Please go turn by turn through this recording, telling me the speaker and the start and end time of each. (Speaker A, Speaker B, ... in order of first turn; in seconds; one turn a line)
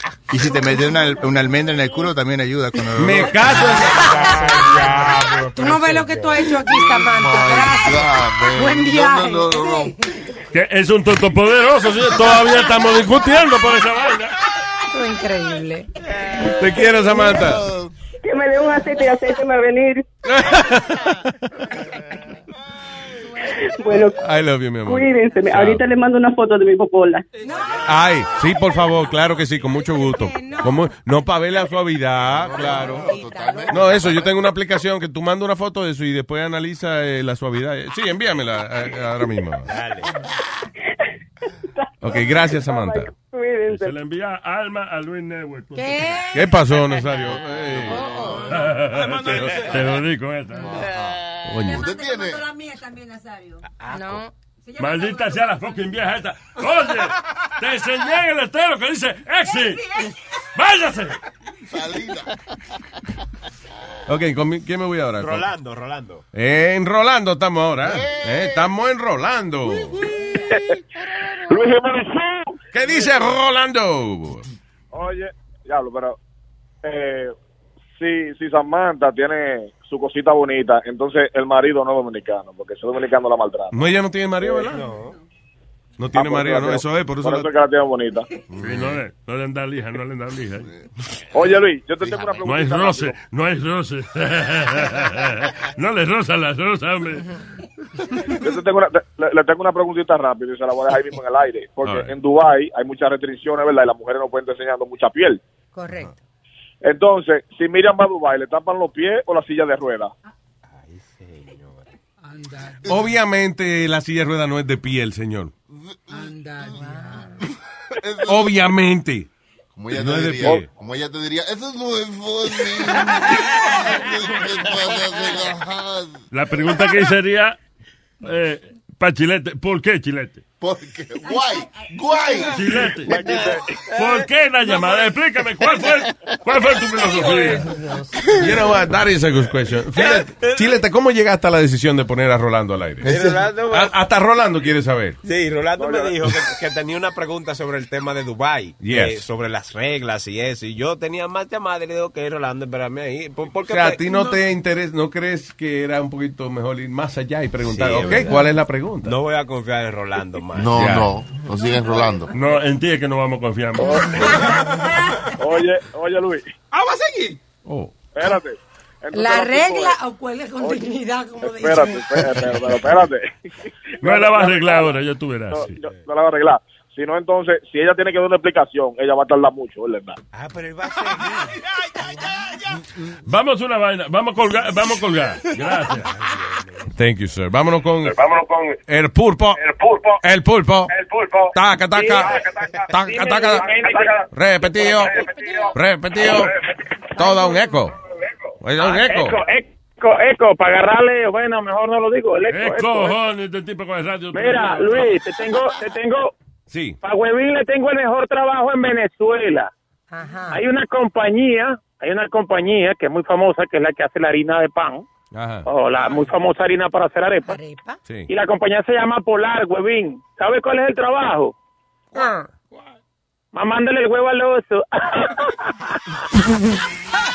Speaker A: 0.3-3.4
Speaker B: 2.9-4.1
Speaker C: 3.8-6.1
Speaker D: 3.9-4.9
Speaker E: 4.0-5.8
Speaker D: 5.5-10.0
Speaker F: 6.7-10.0
Speaker G: 10.5-14.4
Speaker D: 14.9-15.9
Speaker B: 16.4-17.6
Speaker F: 17.1-17.9
Speaker H: 18.2-20.1
Speaker B: 20.3-21.2
Speaker H: 23.5-24.2
Speaker B: 24.2-25.8
Speaker H: 24.9-27.2
Speaker C: 27.3-29.2
Speaker D: 27.4-28.0
Speaker B: 27.9-33.1
Speaker D: 29.7-30.9
Speaker F: 32.3-34.4
Speaker D: 32.8-33.9
Speaker I: 33.0-33.8
Speaker B: 33.7-39.7
Speaker E: 39.6-40.1
Speaker H: 41.8-43.9
Speaker B: 42.0-43.1
Speaker G: 43.7-46.3
Speaker D: 45.8-46.6
Speaker B: 46.3-48.1
Speaker F: 47.9-48.4
Speaker D: 47.9-48.5
Speaker G: 48.5-50.8
Speaker C: 48.7-50.0
Speaker F: 50.6-52.4
Speaker I: 50.7-53.7
Speaker B: 51.5-51.9
Speaker E: 53.8-54.2
Speaker D: 53.9-54.3
Speaker I: 54.6-55.8
Speaker G: 54.8-59.8
Speaker I: 59.5-60.1
Speaker G: 60.5-61.2
Speaker F: 61.7-62.3
Speaker B: 64.1-65.5
Speaker E: 65.2-66.2
Speaker B: 66.3-70.0
Speaker F: 67.9-68.6
Speaker J: 70.5-70.8
Speaker J: 71.4-72.4
Speaker B: 72.7-74.5
Speaker J: 74.9-76.2
Speaker J: 76.8-77.3
Speaker J: 78.0-83.7
Speaker B: 83.7-84.8
Speaker E: 84.5-85.1
Speaker B: 86.0-87.5
Speaker J: 86.2-88.2
Speaker F: 88.5-89.0
Speaker G: 88.6-90.7
Speaker J: 91.3-93.2
Speaker F: 92.0-92.4
Speaker G: 92.4-97.3
Speaker J: 98.3-105.4
Speaker B: 101.8-102.1
Speaker D: 105.8-106.2
Speaker J: 106.8-110.1
Speaker E: 110.8-111.8
Speaker C: 112.2-113.0
Speaker B: 112.9-115.5
Speaker F: 115.7-116.7
Speaker C: 116.1-117.3
Speaker D: 116.8-117.4
Speaker F: 118.0-118.6
Speaker B: 118.3-119.3
Speaker F: 119.8-126.2
Speaker B: 119.9-120.7
Speaker G: 126.3-127.6
Speaker G: 128.2-130.4
Speaker F: 130.6-132.9
Speaker G: 132.5-133.3
Speaker J: 133.1-133.5
Speaker G: 133.9-137.7
Speaker C: 137.1-137.6
Speaker D: 137.7-138.0
Speaker B: 138.3-145.2
Speaker E: 140.0-140.8
Speaker E: 143.0-144.0
Speaker E: 145.2-154.4
Speaker J: 145.8-146.2
Speaker B: 148.8-149.2
Speaker B: 153.7-159.2
Speaker E: 157.7-161.0
Speaker F: 160.5-162.3
Speaker B: 160.7-161.1
Speaker G: 162.3-164.5
Speaker J: 163.8-164.4
Speaker C: 164.3-164.7
Speaker J: 165.4-166.4
Speaker C: 166.7-167.4
Speaker B: 167.7-167.9
Speaker J: 168.2-170.0
Speaker D: 169.1-172.7
Speaker J: 170.6-173.3
Speaker F: 172.4-172.9
Speaker J: 174.0-175.0
Speaker G: 174.0-175.8
Speaker J: 175.5-180.2
Speaker E: 180.3-181.5
Speaker C: 181.3-182.8
Speaker G: 183.3-186.1
Speaker E: 186.1-186.7
Speaker B: 187.0-188.2
Speaker B: 188.9-189.7
Speaker B: 190.2-190.9
Speaker J: 191.1-191.4
Speaker B: 191.5-193.7
Speaker K: 192.0-192.2
Speaker J: 192.0-194.2
Speaker K: 192.9-194.1
Speaker B: 194.3-195.2
Speaker J: 194.8-195.4
Speaker B: 195.7-196.5
Speaker B: 197.2-197.9
Speaker B: 198.6-199.4
Speaker K: 198.8-203.2
Speaker G: 202.5-205.2
Speaker K: 204.3-206.3
Speaker B: 206.7-207.0
Speaker K: 207.0-209.7
Speaker D: 210.1-210.6
Speaker K: 210.5-215.1
Speaker B: 215.3-215.7
Speaker K: 215.7-217.6
Speaker D: 217.5-218.0
Speaker B: 218.1-218.3
Speaker K: 218.3-221.5
Speaker K: 223.5-225.5